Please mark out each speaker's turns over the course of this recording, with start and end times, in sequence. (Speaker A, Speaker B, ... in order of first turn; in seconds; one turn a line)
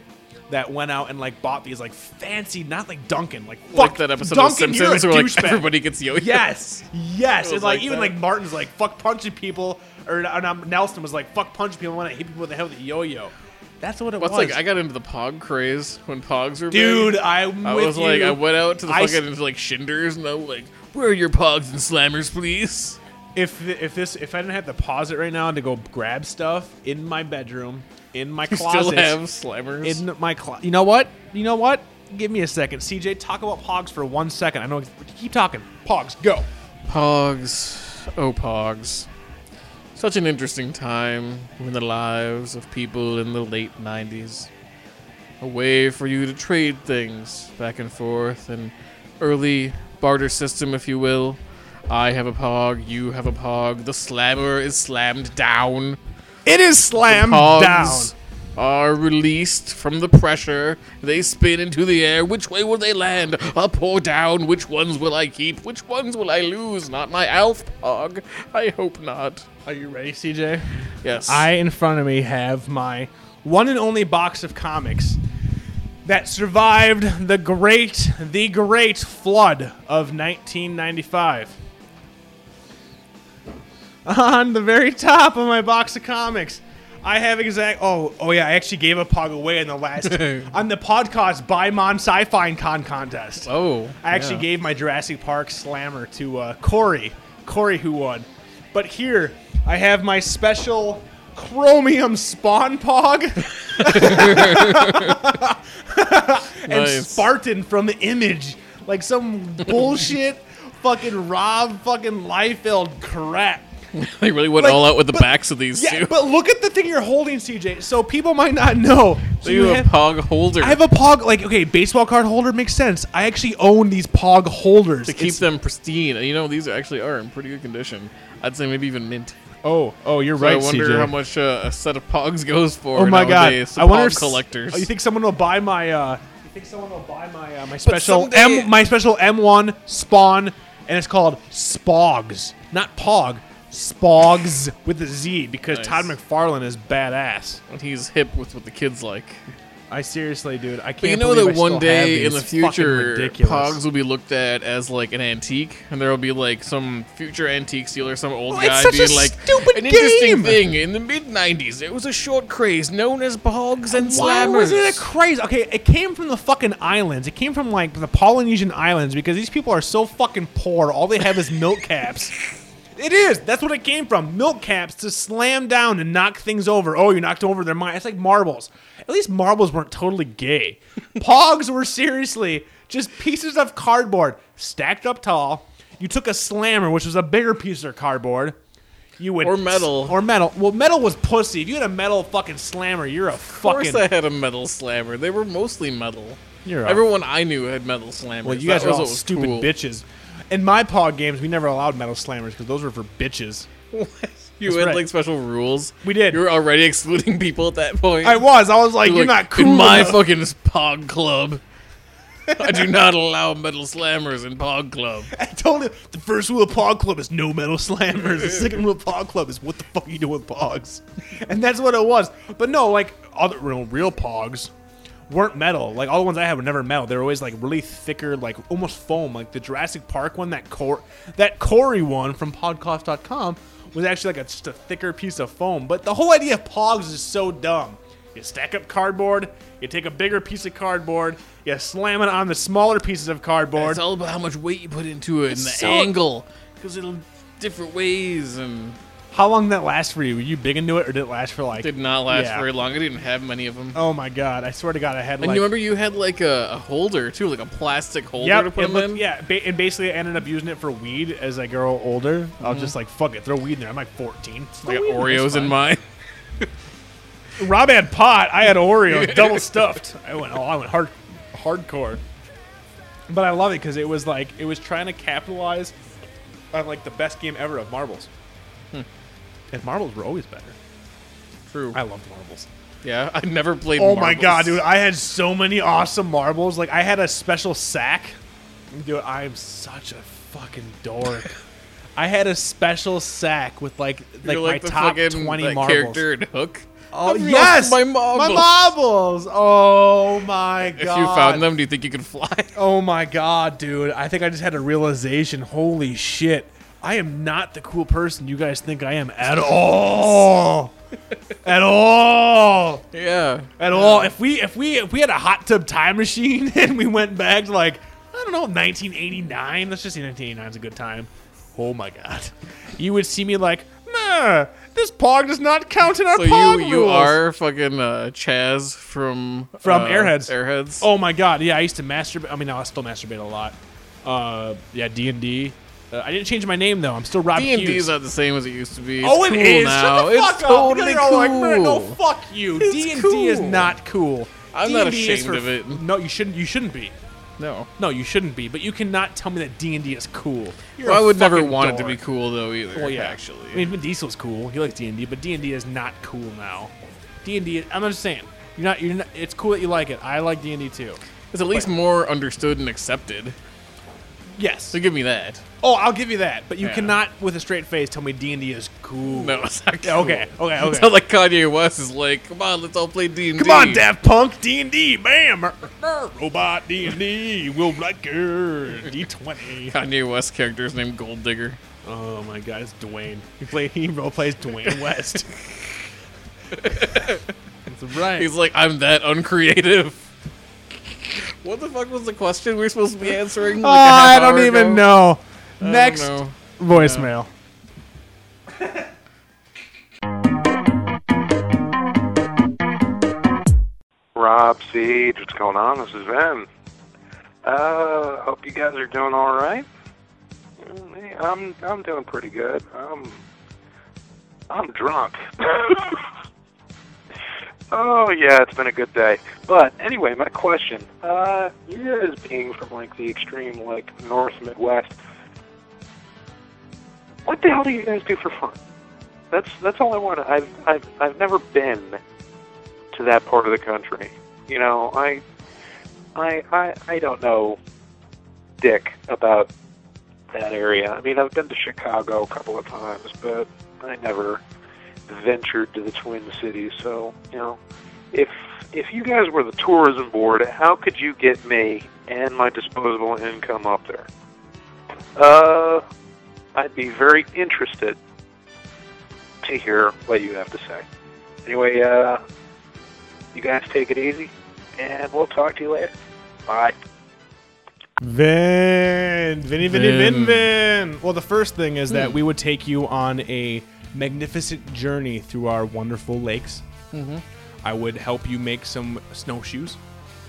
Speaker A: 0.5-14.6
Speaker B: 3.7-6.5
Speaker B: 7.4-8.2
Speaker B: 14.2-23.0
Speaker A: 16.7-19.2
Speaker A: 23.4-29.2
Speaker B: 28.5-30.0
Speaker A: 29.8-36.5
Speaker B: 36.9-39.1
Speaker B: 40.0-44.5
Speaker B: 45.4-56.0
Speaker A: 56.5-58.1
Speaker B: 57.1-69.5
Speaker A: 69.7-75.2
Speaker B: 71.0-71.5
Speaker A: 76.0-81.6
Speaker A: 84.0-93.5
Speaker B: 90.0-90.5
Speaker B: 93.5-94.5
Speaker A: 94.0-113.7
Speaker B: 103.7-105.2
Speaker B: 106.7-107.3
Speaker B: 113.9-116.1
Speaker A: 114.6-120.0
Speaker B: 119.4-120.8
Speaker A: 120.6-125.5
Speaker B: 125.1-129.4
Speaker A: 129.6-131.2
Speaker B: 130.4-134.9
Speaker A: 132.9-147.6
Speaker B: 137.8-138.8
Speaker B: 145.7-146.1
Speaker B: 147.7-149.4
Speaker A: 149.9-153.8
Speaker B: 151.0-165.1
Speaker A: 158.5-160.6
Speaker A: 163.9-172.3
Speaker A: 172.9-188.6
Speaker A: 189.2-194.1
Speaker B: 189.4-190.2
Speaker B: 193.4-199.7
Speaker A: 196.7-197.0
Speaker A: 198.4-203.7
Speaker B: 203.9-208.5
Speaker A: 204.7-205.0
Speaker A: 206.0-206.4
Speaker A: 208.2-210.3
Speaker B: 209.0-211.6
Speaker A: 212.5-212.9
Speaker B: 212.5-215.3
Speaker A: 215.3-224.7
Speaker A: 225.3-244.0
Speaker B: 243.8-249.0
Speaker A: 245.5-246.2
Speaker A: 249.3-252.7
Speaker B: 251.8-254.0
Speaker A: 253.9-255.7
Speaker B: 255.4-259.2
Speaker A: 258.4-265.8
Speaker B: 262.6-262.9
Speaker B: 264.8-266.0
Speaker A: 267.6-272.2
Speaker B: 269.1-269.7
Speaker A: 273.3-275.9
Speaker A: 276.7-278.3
Speaker A: 279.7-280.8
Speaker B: 281.7-282.0
Speaker A: 281.9-282.7
Speaker B: 283.0-284.8
Speaker A: 283.9-288.4
Speaker A: 288.9-291.5
Speaker A: 292.2-296.2
Speaker B: 294.4-298.9
Speaker A: 297.1-301.7
Speaker B: 300.9-302.8
Speaker A: 302.8-310.9
Speaker A: 311.6-313.1
Speaker B: 313.1-314.3
Speaker A: 313.8-327.4
Speaker B: 326.3-331.1
Speaker A: 329.8-338.1
Speaker B: 337.5-342.2
Speaker A: 339.2-347.1
Speaker B: 342.8-343.9
Speaker B: 344.7-346.0
Speaker B: 347.6-347.9
Speaker A: 348.0-352.2
Speaker B: 351.0-353.9
Speaker A: 352.9-361.9
Speaker B: 361.5-363.6
Speaker A: 364.6-365.0
Speaker B: 364.9-365.6
Speaker A: 365.8-371.1
Speaker B: 366.8-367.1
Speaker B: 369.3-374.1
Speaker A: 373.5-380.0
Speaker B: 379.9-381.8
Speaker A: 382.0-385.5
Speaker B: 385.1-385.8
Speaker B: 386.7-387.4
Speaker A: 386.9-387.2
Speaker A: 387.9-388.5
Speaker B: 388.4-390.3
Speaker B: 391.3-395.1
Speaker A: 393.8-397.5
Speaker B: 395.8-397.3
Speaker C: 404.4-406.7
Speaker C: 407.6-409.9
Speaker C: 410.8-413.4
Speaker C: 414.7-416.2
Speaker C: 417.9-425.2
Speaker C: 427.4-428.8
Speaker C: 429.5-432.2
Speaker C: 433.1-435.4
Speaker C: 436.4-437.8
Speaker C: 438.8-439.7
Speaker C: 440.5-444.6
Speaker C: 445.3-447.8
Speaker C: 448.3-454.3
Speaker C: 455.4-456.0
Speaker C: 456.8-458.2
Speaker C: 459.6-461.1
Speaker C: 461.6-462.4
Speaker C: 463.5-466.1
Speaker C: 466.7-466.9
Speaker A: 468.2-476.8
Speaker B: 469.9-470.7
Speaker B: 472.1-472.4
Speaker B: 477.1-477.4
Speaker A: 477.8-480.0